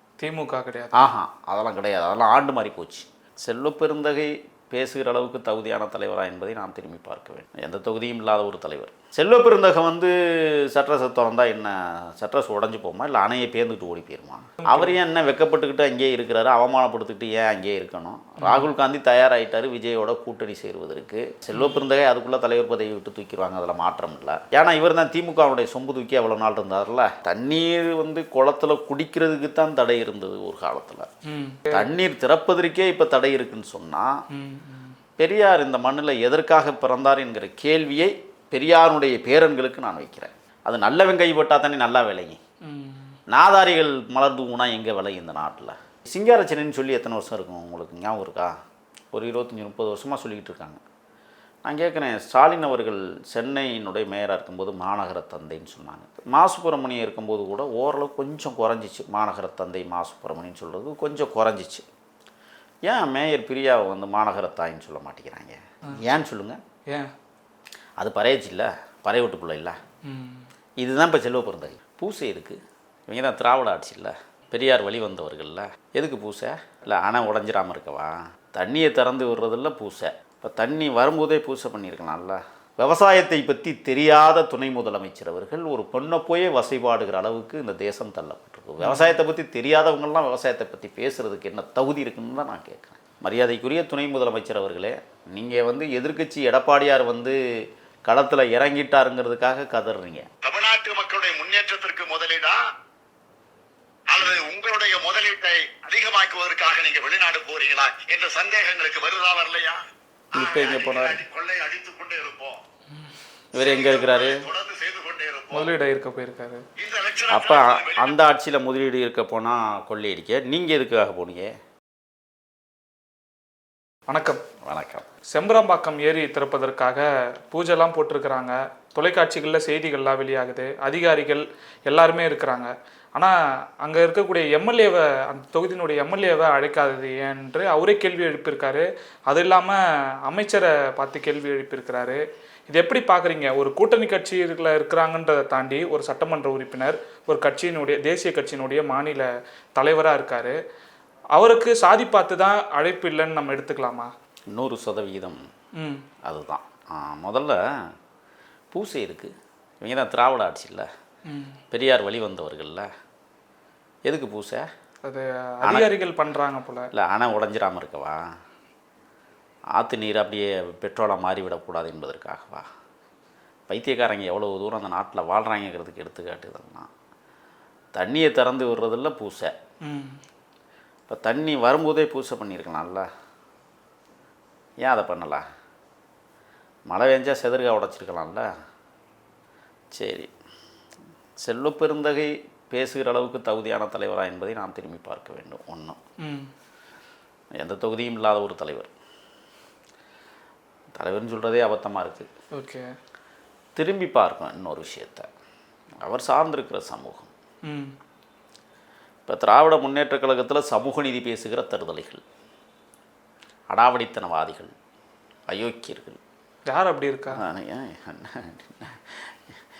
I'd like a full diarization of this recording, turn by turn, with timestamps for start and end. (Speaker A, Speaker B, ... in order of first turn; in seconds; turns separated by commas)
Speaker A: 0.2-1.0, Speaker B: 0.9-31.1, Speaker A: 14.6-14.9, Speaker A: 18.4-18.7, Speaker A: 21.5-21.8, Speaker A: 31.2-31.9, Speaker B: 31.7-34.2, Speaker A: 34.3-35.0, Speaker B: 35.2-42.4, Speaker A: 42.6-43.2, Speaker B: 43.3-48.5, Speaker B: 49.1-50.8, Speaker B: 51.6-61.8, Speaker B: 62.9-66.6, Speaker B: 68.0-69.8, Speaker A: 70.0-70.5, Speaker B: 70.8-97.4, Speaker A: 88.8-89.2, Speaker B: 98.1-100.3, Speaker C: 100.4-102.6, Speaker C: 104.1-109.8, Speaker B: 110.3-111.2, Speaker C: 110.3-112.6, Speaker B: 113.5-114.4, Speaker C: 113.5-115.7, Speaker A: 115.5-116.6, Speaker C: 116.8-118.2, Speaker B: 117.3-121.5, Speaker A: 124.1-124.4, Speaker B: 124.6-125.1, Speaker A: 125.3-150.6, Speaker A: 151.3-154.1, Speaker B: 154.5-155.4, Speaker A: 155.8-156.0, Speaker B: 156.2-157.9, Speaker B: 158.7-160.9, Speaker A: 161.3-161.6, Speaker B: 161.7-162.9, Speaker B: 164.1-164.7, Speaker A: 165.0-166.9, Speaker B: 165.6-165.9, Speaker B: 166.9-168.2, Speaker B: 169.7-172.7, Speaker B: 173.7-176.9, Speaker B: 177.9-179.5, Speaker A: 179.8-180.2, Speaker B: 181.1-183.1, Speaker B: 184.8-185.4, Speaker B: 186.9-188.5, Speaker B: 189.9-190.3, Speaker B: 191.4-196.0, Speaker A: 196.2-196.5, Speaker B: 197.6-198.9, Speaker B: 200.9-202.3, Speaker A: 202.5-202.9, Speaker B: 203.8-205.3, Speaker B: 206.0-207.3, Speaker A: 207.7-207.9, Speaker B: 209.2-212.2, Speaker B: 213.7-214.7, Speaker B: 215.5-216.2, Speaker A: 216.7-217.4, Speaker B: 217.3-219.3